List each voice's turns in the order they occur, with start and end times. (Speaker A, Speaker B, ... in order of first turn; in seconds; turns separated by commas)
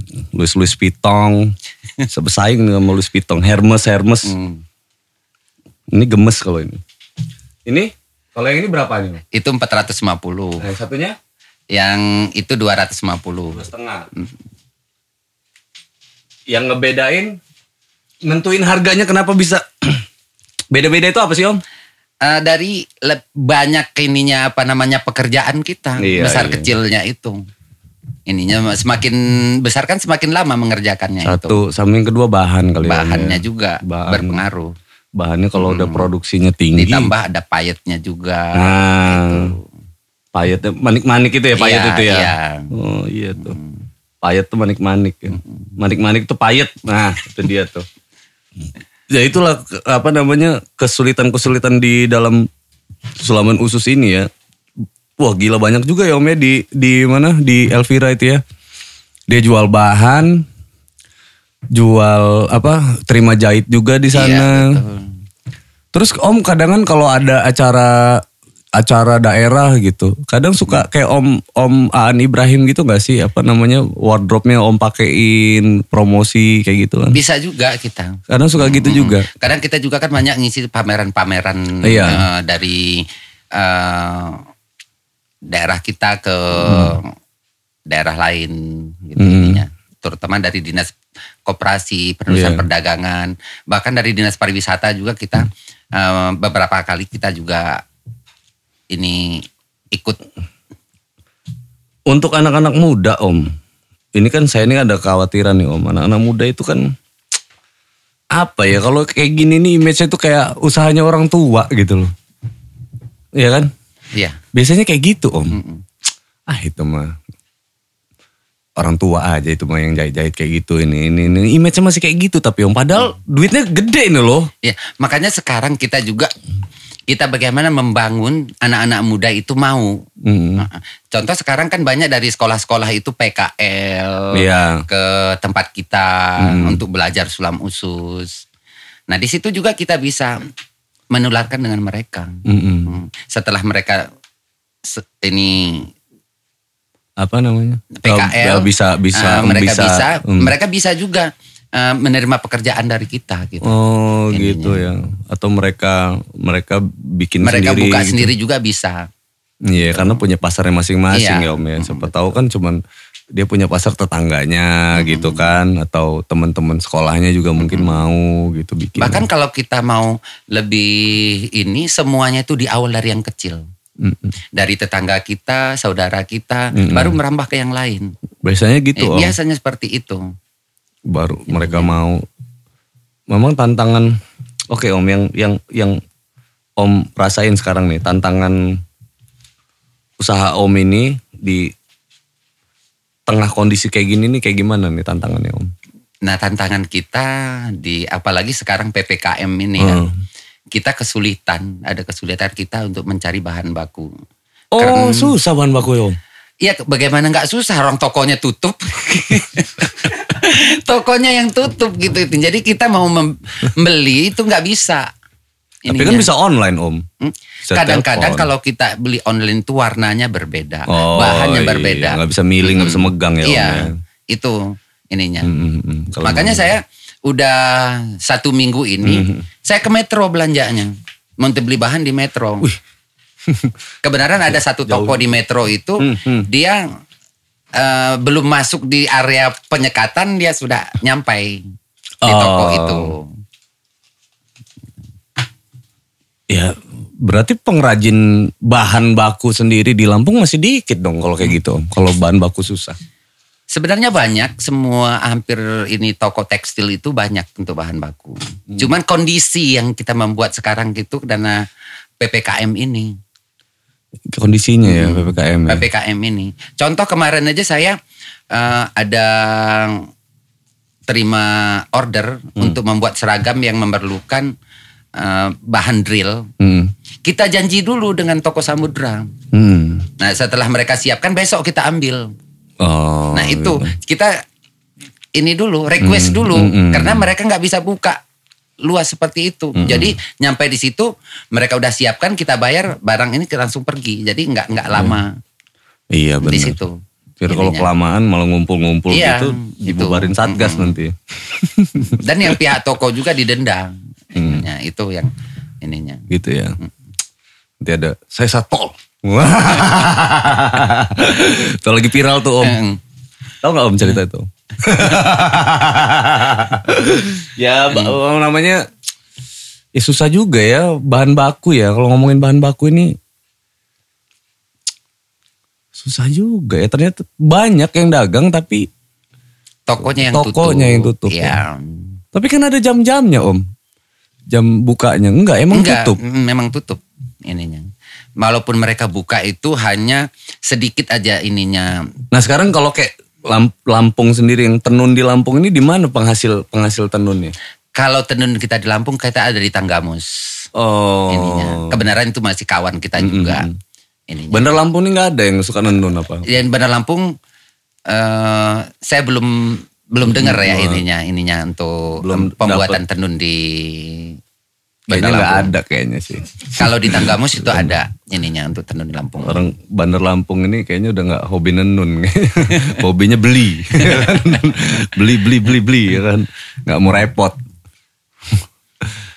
Speaker A: 0.3-1.5, Speaker A: 2.1-4.3, Speaker B: 4.3-4.6, Speaker A: 5.9-6.8, Speaker A: 7.7-9.2, Speaker B: 9.3-10.6, Speaker A: 10.6-11.2, Speaker B: 11.7-13.6, Speaker A: 13.5-14.1, Speaker A: 16.5-17.4, Speaker A: 18.2-20.0, Speaker A: 20.7-21.6, Speaker B: 22.2-27.4, Speaker A: 26.0-26.7, Speaker B: 28.3-31.6, Speaker A: 31.2-34.4, Speaker B: 32.9-34.8, Speaker A: 35.2-37.1, Speaker B: 35.6-36.1, Speaker B: 36.8-39.6, Speaker A: 38.5-39.5, Speaker A: 40.3-43.6, Speaker B: 41.6-42.7, Speaker B: 43.4-43.7, Speaker A: 44.2-47.9, Speaker A: 49.1-52.5, Speaker A: 53.2-54.3, Speaker A: 55.2-58.4, Speaker A: 59.3-60.5, Speaker A: 61.7-64.8, Speaker B: 64.1-65.1, Speaker A: 65.9-68.2, Speaker A: 68.8-77.2, Speaker B: 77.1-84.5, Speaker A: 78.3-79.3, Speaker A: 81.8-82.2, Speaker B: 85.5-87.1, Speaker A: 86.6-87.0, Speaker B: 87.9-97.8, Speaker A: 89.2-89.6, Speaker A: 92.3-92.7, Speaker B: 98.9-100.2, Speaker A: 102.1-103.5, Speaker A: 104.2-107.0, Speaker A: 108.3-112.1, Speaker A: 113.4-113.7, Speaker B: 114.1-114.4, Speaker A: 114.5-115.6, Speaker B: 115.5-115.8, Speaker A: 116.5-117.2, Speaker A: 118.8-124.5, Speaker B: 124.6-126.3, Speaker B: 127.1-130.0, Speaker A: 130.2-130.7, Speaker B: 130.6-138.4, Speaker A: 134.3-134.8, Speaker A: 136.4-136.8, Speaker B: 139.1-140.4, Speaker B: 141.1-144.1, Speaker A: 142.5-142.9, Speaker B: 144.8-145.9, Speaker A: 147.2-150.5, Speaker B: 148.0-153.8, Speaker A: 153.6-158.3, Speaker B: 154.3-154.9, Speaker B: 157.4-159.1, Speaker A: 159.6-162.8, Speaker B: 159.8-160.2, Speaker B: 161.1-162.2, Speaker A: 163.3-169.3, Speaker B: 164.9-165.5, Speaker B: 167.6-168.0, Speaker B: 169.0-173.6, Speaker A: 174.0-174.3, Speaker B: 174.5-178.1, Speaker A: 176.7-177.2, Speaker A: 178.4-179.3, Speaker B: 179.0-180.3, Speaker A: 181.1-182.2, Speaker B: 181.5-181.9, Speaker A: 183.3-184.2, Speaker A: 184.7-186.0, Speaker A: 186.8-188.8, Speaker A: 190.2-191.7, Speaker A: 193.3-195.7, Speaker B: 196.2-200.0, Speaker A: 199.8-200.1, Speaker B: 200.7-204.1, Speaker A: 204.7-206.2, Speaker B: 204.8-205.4, Speaker B: 206.6-215.1, Speaker B: 215.8-216.3, Speaker A: 215.9-217.1, Speaker B: 217.2-225.5, Speaker A: 217.7-218.5, Speaker A: 220.9-224.0, Speaker A: 225.4-226.7, Speaker B: 226.2-232.7, Speaker A: 229.0-229.4, Speaker A: 233.5-233.8, Speaker B: 234.0-236.8, Speaker A: 234.8-235.3, Speaker A: 236.0-236.5, Speaker B: 237.8-241.7, Speaker A: 242.2-243.1, Speaker B: 242.2-243.3, Speaker A: 246.5-253.0, Speaker B: 253.7-261.7, Speaker B: 262.2-263.2, Speaker A: 264.3-265.8, Speaker B: 264.9-268.0, Speaker B: 268.5-270.1, Speaker B: 271.1-274.5, Speaker B: 275.2-276.5, Speaker A: 276.6-276.9, Speaker B: 277.2-279.3, Speaker A: 279.5-280.1, Speaker B: 280.2-282.3, Speaker A: 282.8-283.9, Speaker B: 283.3-284.4, Speaker B: 285.4-288.2, Speaker A: 286.0-287.3, Speaker B: 288.8-295.4, Speaker A: 289.8-290.2, Speaker A: 296.1-296.8, Speaker B: 296.4-297.9, Speaker A: 297.4-302.6, Speaker B: 299.1-300.9, Speaker B: 302.1-306.2, Speaker A: 304.4-304.7, Speaker A: 306.3-306.8, Speaker A: 307.8-312.8, Speaker B: 312.6-313.0, Speaker A: 313.6-318.8, Speaker A: 319.9-323.2, Speaker A: 326.0-328.9, Speaker B: 329.9-332.2, Speaker A: 330.1-331.6, Speaker A: 332.3-333.6, Speaker A: 334.5-336.2, Speaker B: 335.7-342.1, Speaker A: 342.3-347.6, Speaker B: 347.9-350.7, Speaker A: 350.7-352.0, Speaker B: 351.3-353.7, Speaker A: 353.2-353.8, Speaker B: 354.3-354.7, Speaker A: 354.5-356.5, Speaker B: 356.5-357.3, Speaker B: 358.1-364.4, Speaker A: 360.2-361.0, Speaker A: 362.2-363.0, Speaker B: 365.1-365.7, Speaker A: 365.1-367.9, Speaker B: 366.7-369.6, Speaker A: 369.4-377.6, Speaker A: 378.5-379.1